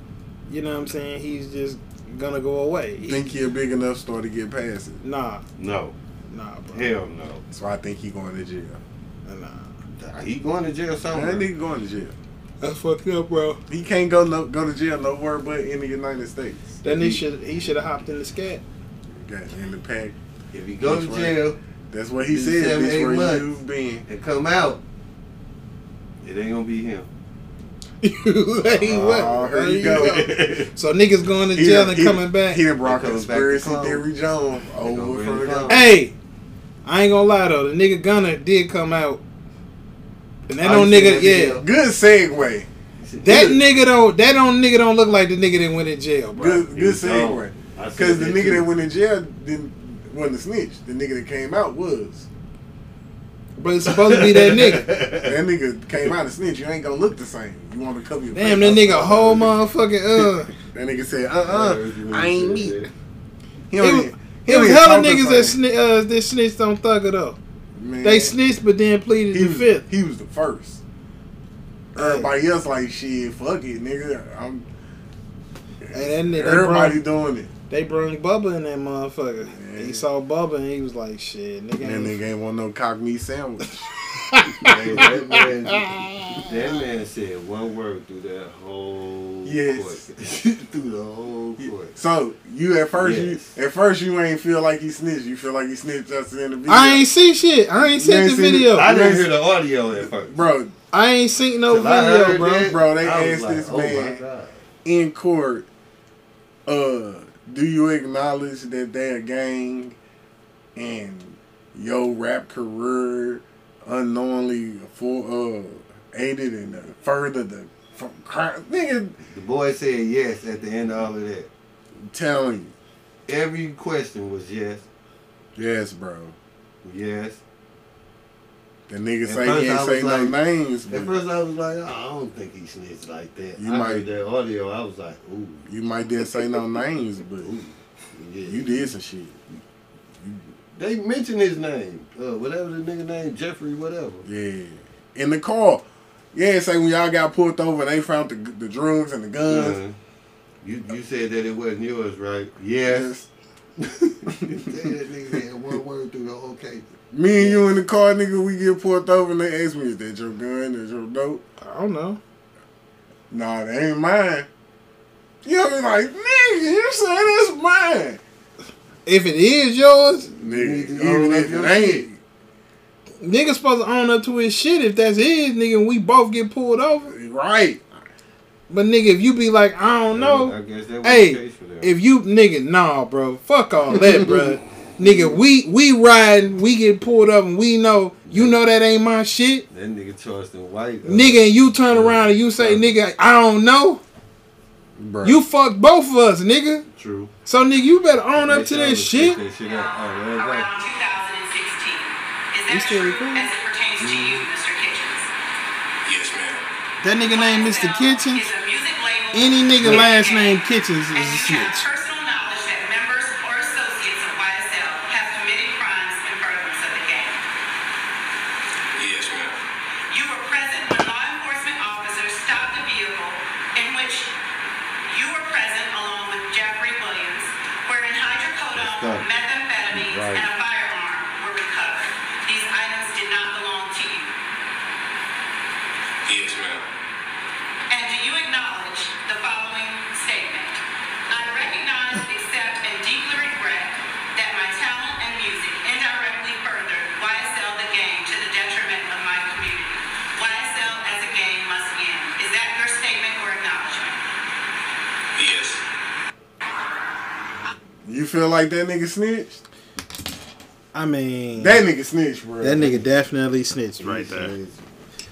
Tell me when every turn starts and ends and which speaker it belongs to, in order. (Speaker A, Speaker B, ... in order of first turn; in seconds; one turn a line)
Speaker A: 0.5-3.3
Speaker B: 3.0-5.0
Speaker A: 5.0-5.4
Speaker C: 5.6-6.0
Speaker A: 6.3-6.9
Speaker C: 6.7-7.4
Speaker B: 7.5-8.8
Speaker A: 9.3-9.7
Speaker C: 10.0-11.5
Speaker B: 11.1-12.2
Speaker A: 12.6-13.6
Speaker B: 13.7-16.8
Speaker C: 16.8-17.2
Speaker A: 16.8-18.6
Speaker B: 19.1-20.2
Speaker C: 20.5-21.6
Speaker B: 20.8-24.1
Speaker C: 22.3-23.5
Speaker C: 24.1-24.8
Speaker C: 26.2-27.1
Speaker A: 28.0-32.6
Speaker C: 28.8-30.7
Speaker B: 28.8-30.3
Speaker B: 31.5-35.9
Speaker C: 32.8-34.1
Speaker C: 34.8-35.9
Speaker A: 35.7-36.1
Speaker A: 36.9-39.2
Speaker A: 40.5-41.6
Speaker C: 40.6-41.7
Speaker B: 41.6-42.7
Speaker C: 43.0-43.6
Speaker A: 43.2-46.7
Speaker B: 46.4-52.3
Speaker C: 46.7-48.7
Speaker A: 53.6-54.9
Speaker C: 53.9-55.4
Speaker B: 55.1-59.6
Speaker A: 58.4-60.5
Speaker B: 60.6-62.8
Speaker C: 61.5-62.9
Speaker B: 63.7-65.6
Speaker A: 63.8-67.4
Speaker B: 67.8-68.4
Speaker A: 68.0-69.9
Speaker B: 69.3-70.8
Speaker B: 72.0-74.7
Speaker A: 72.0-72.3
Speaker B: 75.8-77.5
Speaker A: 75.9-77.0
Speaker A: 77.7-82.2
Speaker B: 79.5-80.1
Speaker B: 81.8-83.9
Speaker A: 84.1-86.5
Speaker B: 84.5-85.2
Speaker C: 84.7-92.0
Speaker B: 89.5-90.1
Speaker B: 91.6-97.1
Speaker C: 93.0-93.6
Speaker A: 96.7-98.9
Speaker B: 97.8-99.3
Speaker C: 98.7-100.4
Speaker B: 100.0-100.8
Speaker A: 100.9-102.7
Speaker C: 101.7-104.6
Speaker B: 102.5-104.2
Speaker B: 104.8-105.7
Speaker B: 106.7-110.0
Speaker B: 110.8-119.2
Speaker C: 119.3-121.5
Speaker B: 122.0-122.7
Speaker C: 123.3-124.9
Speaker B: 125.6-126.4
Speaker C: 126.8-127.4
Speaker B: 128.9-131.2
Speaker C: 129.2-130.4
Speaker C: 130.9-135.7
Speaker B: 133.6-134.1
Speaker B: 135.7-137.5
Speaker C: 136.2-136.6
Speaker C: 137.4-138.9
Speaker B: 138.5-139.4
Speaker C: 140.8-144.3
Speaker B: 144.2-149.8
Speaker C: 149.4-150.0
Speaker C: 150.6-153.1
Speaker B: 152.9-153.3
Speaker C: 153.8-157.7
Speaker B: 154.3-154.9
Speaker B: 157.1-161.4
Speaker A: 161.6-162.2
Speaker B: 163.3-164.5
Speaker B: 165.4-168.2
Speaker A: 169.1-170.3
Speaker C: 170.4-172.1
Speaker B: 170.4-172.2
Speaker A: 173.2-177.2
Speaker B: 177.1-178.0
Speaker A: 178.7-189.7
Speaker C: 180.1-181.9
Speaker C: 185.0-185.3
Speaker C: 188.3-188.6
Speaker C: 189.7-192.9
Speaker A: 191.0-194.0
Speaker B: 195.0-195.4
Speaker A: 195.2-196.8
Speaker C: 196.9-197.3
Speaker A: 197.5-199.4
Speaker C: 198.4-200.7
Speaker D: 199.6-205.3
Speaker A: 202.7-203.5
Speaker B: 204.0-204.4
Speaker E: 206.0-206.6
Speaker A: 207.0-208.5
Speaker D: 207.3-217.4
Speaker A: 209.3-211.8
Speaker C: 209.8-210.1
Speaker E: 219.0-219.6
Speaker D: 220.1-224.3
Speaker D: 225.1-234.3
Speaker C: 228.7-229.3
Speaker C: 229.9-230.5
Speaker E: 236.2-236.8
Speaker D: 237.9-254.2
Speaker E: 255.3-255.8
Speaker B: 258.1-259.6
Speaker A: 260.9-261.9
Speaker B: 261.6-263.0
Speaker A: 262.6-264.6
Speaker C: 264.0-264.8